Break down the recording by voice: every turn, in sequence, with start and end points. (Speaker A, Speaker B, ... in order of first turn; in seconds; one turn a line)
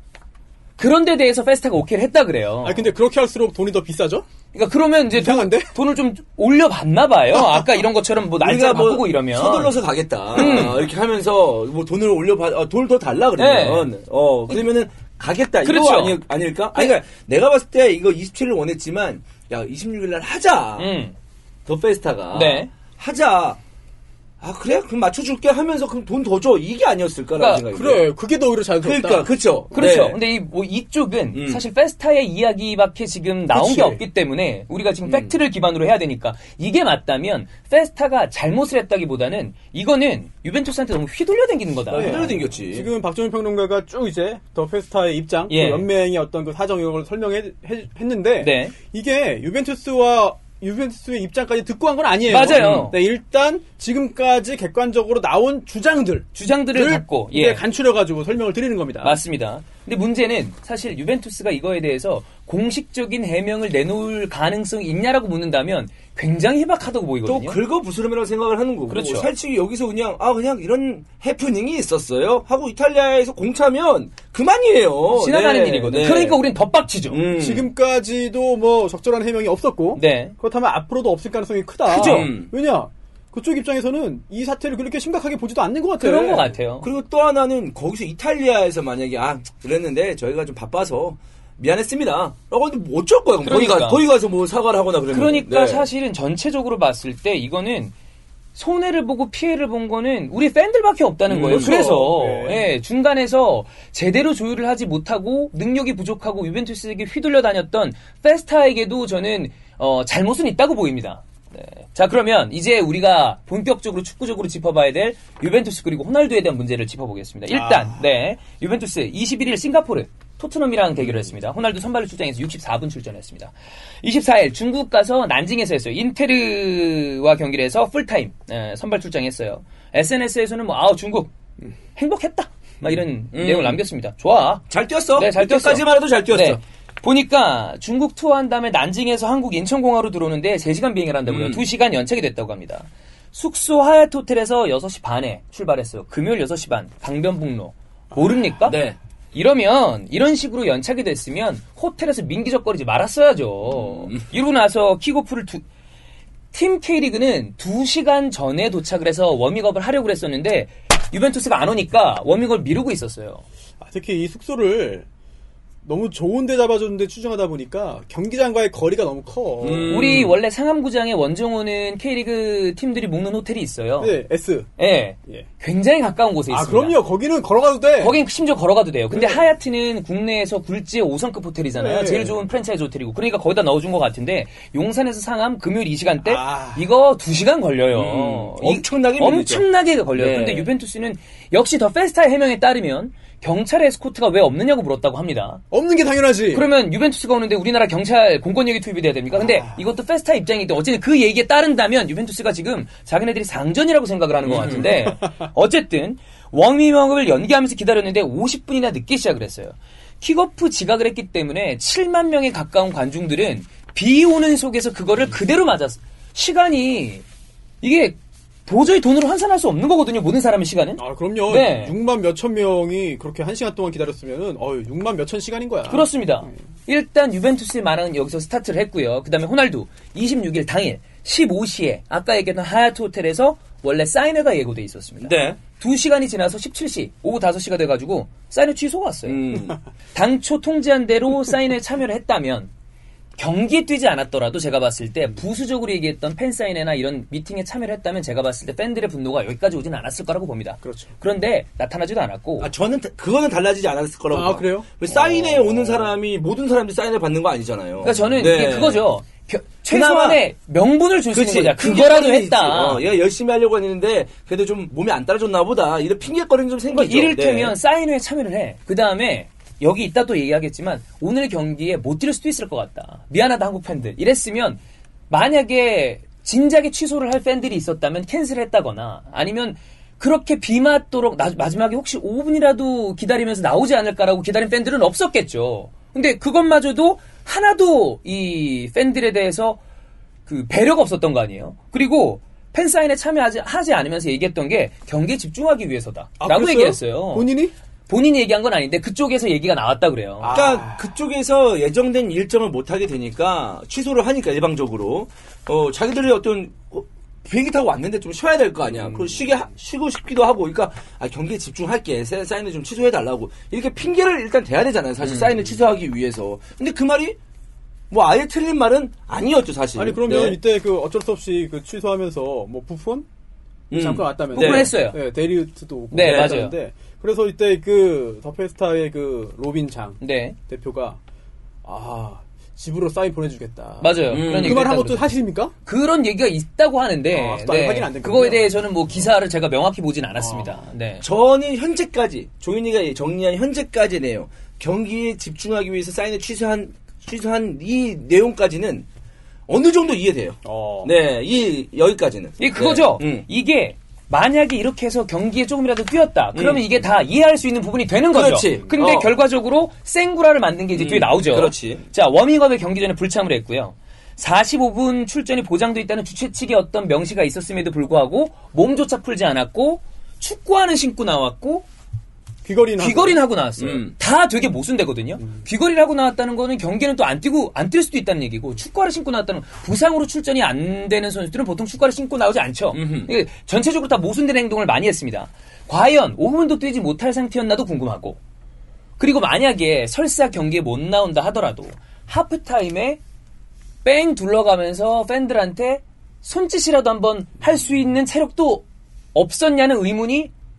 Speaker A: 0.8-2.9
Speaker B: 2.6-4.3
Speaker A: 4.5-9.8
Speaker B: 5.1-5.8
Speaker C: 8.4-20.9
Speaker A: 10.3-10.8
Speaker B: 10.4-10.7
Speaker A: 13.4-13.9
Speaker A: 15.7-16.2
Speaker A: 20.8-21.1
Speaker C: 21.7-23.6
Speaker A: 22.3-22.7
Speaker C: 24.4-28.1
Speaker A: 27.4-27.6
Speaker B: 27.7-30.2
Speaker C: 28.8-30.2
Speaker A: 29.7-42.3
Speaker C: 31.3-31.6
Speaker B: 33.5-34.0
Speaker C: 35.1-35.3
Speaker C: 41.9-42.9
Speaker B: 41.9-59.2
Speaker A: 45.5-45.9
Speaker A: 48.4-48.8
Speaker A: 52.3-53.0
Speaker C: 52.5-52.9
Speaker A: 56.4-57.6
Speaker A: 59.0-67.6
Speaker C: 67.2-76.4
Speaker A: 68.9-69.3
Speaker A: 75.1-77.2
Speaker C: 77.1-77.7
Speaker B: 77.3-86.5
Speaker A: 80.0-80.4
Speaker A: 81.9-82.3
Speaker C: 81.9-82.5
Speaker A: 86.0-86.9
Speaker C: 86.8-95.9
Speaker A: 93.5-94.0
Speaker A: 95.1-97.9
Speaker A: 98.5-131.3
Speaker C: 101.3-101.8
Speaker B: 101.5-102.7
Speaker B: 117.5-118.0
Speaker A: 131.9-148.8
Speaker C: 133.3-133.8
Speaker C: 134.7-136.6
Speaker C: 141.3-141.6
Speaker C: 148.7-149.0
Speaker A: 149.3-155.6
Speaker C: 153.7-154.2
Speaker A: 156.5-163.4
Speaker B: 163.8-165.1
Speaker B: 165.8-170.0
Speaker C: 169.6-170.3
Speaker A: 169.9-174.2
Speaker B: 174.0-174.7
Speaker A: 174.8-177.0
Speaker B: 176.5-178.2
Speaker A: 178.0-195.6
Speaker B: 179.1-179.5
Speaker B: 181.8-182.4
Speaker B: 186.2-186.8
Speaker C: 187.9-190.7
Speaker B: 195.7-196.7
Speaker A: 196.5-217.2
Speaker B: 199.3-199.8
Speaker C: 204.4-204.9
Speaker A: 217.8-221.9
Speaker B: 221.0-226.5
Speaker A: 225.9-242.7
Speaker C: 235.2-235.6
Speaker C: 239.3-239.8
Speaker A: 243.4-252.7
Speaker B: 250.8-251.1
Speaker C: 252.6-259.1
Speaker B: 254.3-256.1
Speaker A: 258.0-263.0
Speaker C: 259.9-260.4
Speaker C: 261.3-267.8
Speaker A: 266.9-289.8
Speaker A: 290.5-297.5
Speaker B: 296.4-297.7
Speaker A: 298.1-300.6
Speaker B: 300.4-301.2
Speaker C: 300.5-317.4
Speaker B: 308.9-309.6
Speaker A: 315.2-315.5
Speaker C: 318.1-320.6
Speaker B: 320.0-323.3
Speaker C: 323.9-324.9
Speaker B: 323.9-331.2
Speaker A: 324.5-325.2
Speaker A: 326.1-326.7
Speaker C: 326.2-326.6
Speaker A: 330.2-330.6
Speaker B: 331.8-335.7
Speaker A: 334.0-335.3
Speaker C: 334.3-334.9
Speaker A: 335.9-341.2
Speaker B: 337.3-338.7
Speaker B: 340.4-340.8
Speaker C: 341.2-349.1
Speaker C: 349.7-353.5
Speaker B: 350.6-351.1
Speaker A: 352.6-371.9
Speaker C: 356.5-356.9
Speaker C: 358.3-359.3
Speaker C: 360.9-362.0
Speaker B: 372.6-373.4
Speaker A: 373.0-388.4
Speaker C: 373.8-374.1
Speaker C: 382.9-383.3
Speaker A: 389.2-393.2
Speaker A: 394.0-400.5